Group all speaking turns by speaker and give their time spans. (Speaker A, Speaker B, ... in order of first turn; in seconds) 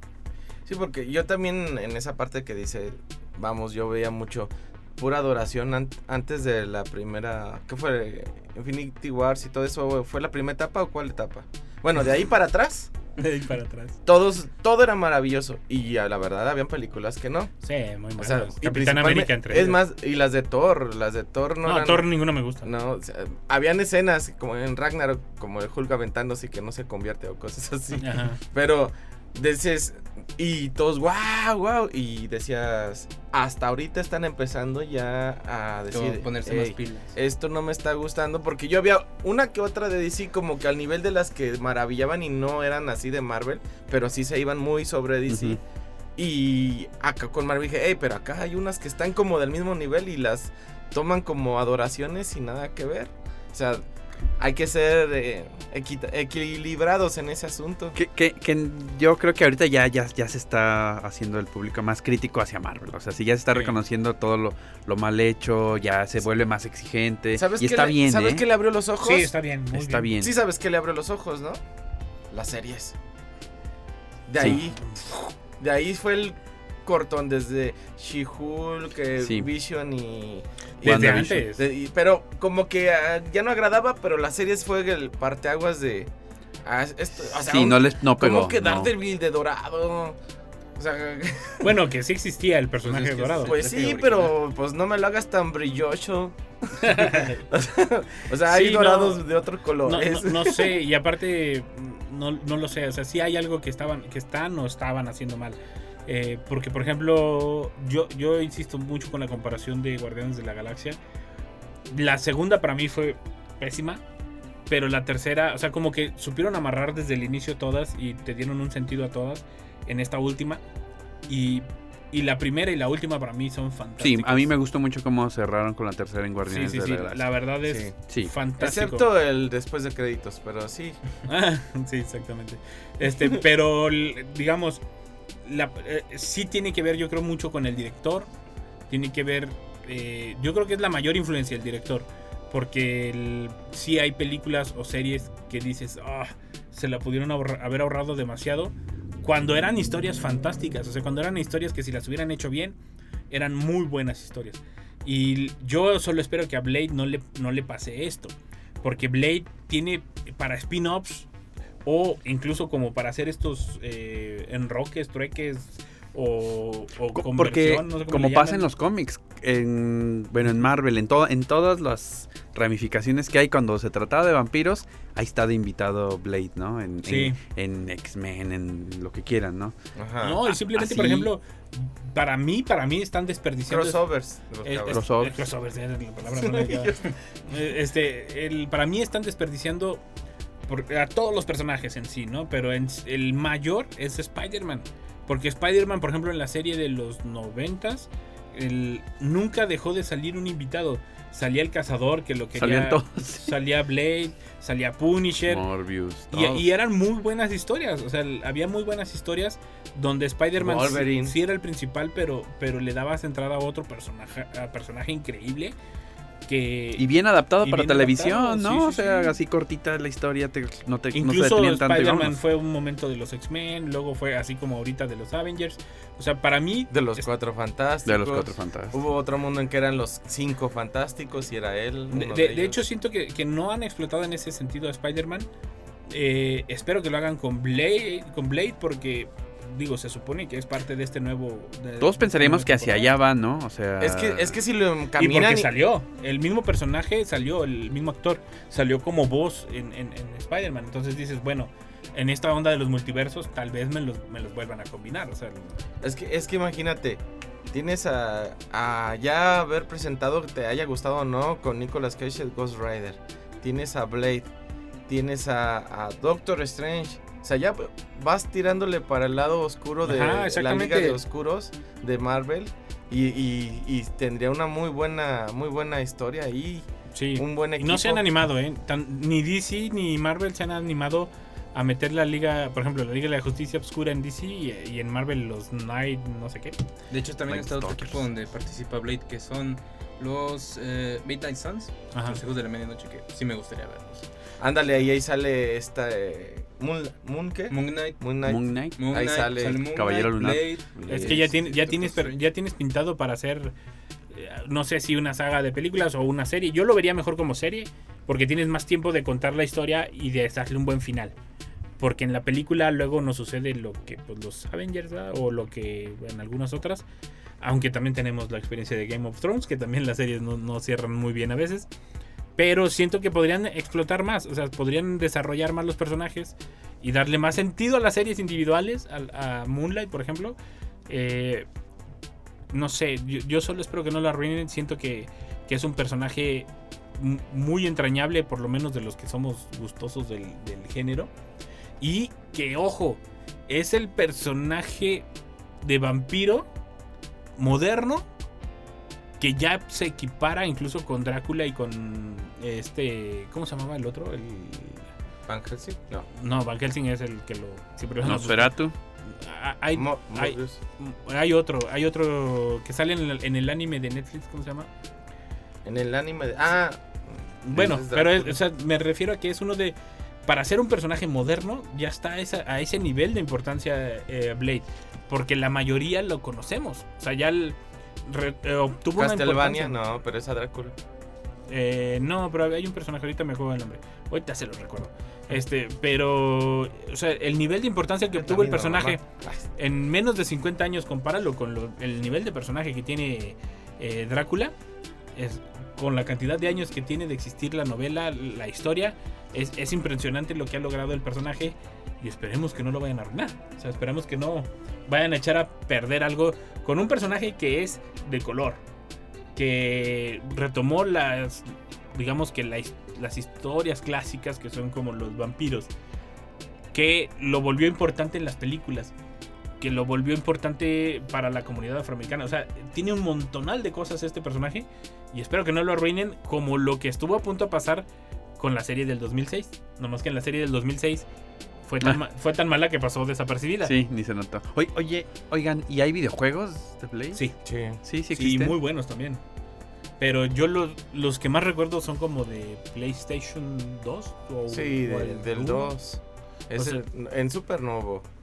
Speaker A: 0.7-12.9, 14.1-17.5, 18.2-22.1, 22.6-45.6, 46.2-53.8, 54.4-58.0, 67.3-69.3, 70.2-71.6, 72.3-73.0, 74.3-86.1, 86.6-90.2, 90.8-91.7, 93.0-100.7, 127.6-127.9, 128.6-131.0, 179.9-180.4, 183.7-185.0, 186.3-187.1, 210.6-211.4, 226.9-232.8, 244.0-245.7, 256.0-264.5, 265.1-278.2, 294.6-298.6, 299.1-299.8, 355.5-356.3, 359.9-360.8, 365.9-368.6, 379.2-380.9, 388.4-389.6, 437.6-438.0, 444.7-448.2
Speaker B: 13.2-14.0, 17.6-19.8, 21.6-22.7, 28.0-28.4, 63.5-63.8, 69.0-70.1, 80.8-81.6, 91.6-94.3, 96.8-97.4, 98.5-99.3, 99.8-111.0, 111.9-114.0, 114.7-120.6, 121.3-124.5, 126.5-129.1, 131.3-134.8, 135.4-138.3, 138.9-152.8, 153.3-161.3, 161.8-168.6, 177.0-177.4, 180.2-184.0, 184.6-186.9, 187.5-190.0, 190.7-205.6, 206.3-215.7, 216.5-219.3, 221.1-227.3, 232.1-235.5, 236.1-243.1, 245.2-255.8, 270.1-271.2, 277.1-286.7, 292.1-292.4, 301.1-303.7, 304.3-311.3, 312.0-317.1, 317.6-321.9, 322.6-330.6, 331.1-331.7, 332.7-341.3, 342.0-345.3, 345.8-346.7, 347.6-348.3, 349.4-355.1, 356.4-358.7, 359.3-364.9, 367.6-379.9, 381.7-389.2, 389.8-394.7, 395.4-408.8, 409.6-415.9, 416.9-419.1, 419.8-428.1, 428.6-431.3, 431.9-433.9, 438.3-439.4, 440.2-445.9, 446.8-447.0
Speaker C: 35.9-37.2, 92.9-93.7, 287.1-294.3, 297.7-298.2, 299.0-302.4
Speaker D: 45.3-45.6, 58.0-68.5, 69.7-70.3, 79.2-79.5, 80.8-81.5, 87.4-88.9, 124.0-127.3, 128.1-128.3, 167.1-179.7, 180.6-181.3, 184.9-185.4, 202.6-203.5, 205.5-206.6, 216.9-222.4, 228.1-229.0, 242.0-244.6, 287.5-288.3, 298.4-299.0, 299.9-301.5, 358.2-358.9, 433.8-437.4, 438.0-438.8